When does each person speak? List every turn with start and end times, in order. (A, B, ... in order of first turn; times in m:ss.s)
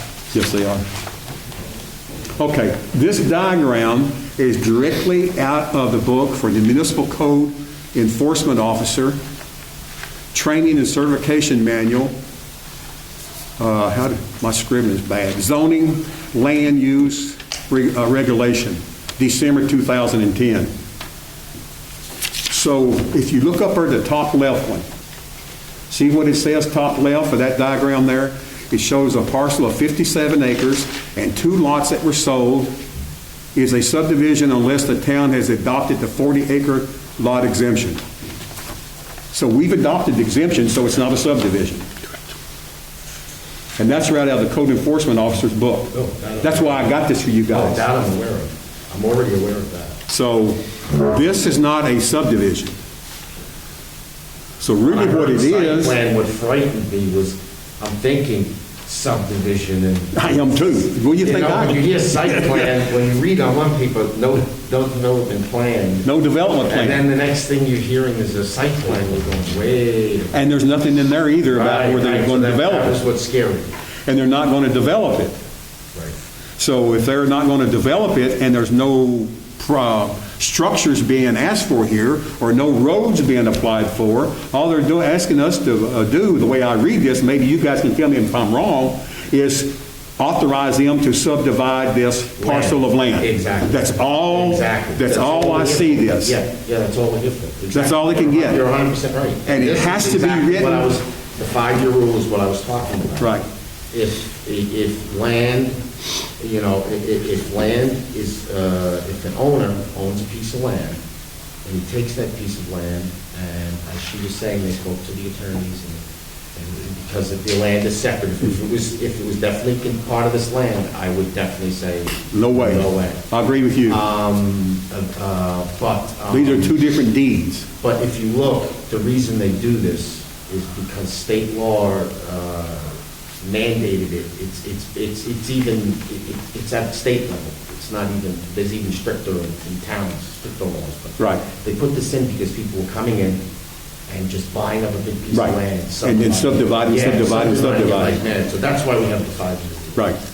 0:00.3-0:00.8 A
0:02.4-0:09.2 A
0:10.3-0:12.1 A
0:13.6-0:20.7 A
0:22.5-0:24.8 A
0:25.9-0:32.7 A
0:33.5-0:38.0 A
0:39.3-0:41.8 A
0:43.8-0:47.8 A
0:45.9-0:46.9 B
0:47.5-0:50.0 B
0:50.1-0:52.7 A
0:54.6-0:56.0 A
0:54.8-1:10.4 B
1:00.1-1:02.7 A
1:06.0-1:07.0 A
1:10.3-1:13.0 A
1:11.5-1:13.7 B
1:14.0-1:15.4 A
1:16.6-1:36.4 A
1:32.4-1:43.4 B
1:37.7-1:38.6 A
1:39.4-1:40.9 A
1:43.2-1:43.4 A
1:43.9-1:45.8 B
1:46.4-1:51.0 B
1:51.6-1:56.0 B
1:56.5-2:03.2 B
2:02.3-2:04.0 A
2:03.8-2:06.8 B
2:06.3-2:07.7 A
2:07.8-2:23.4 B
2:24.1-2:30.1 B
2:25.3-2:28.2 A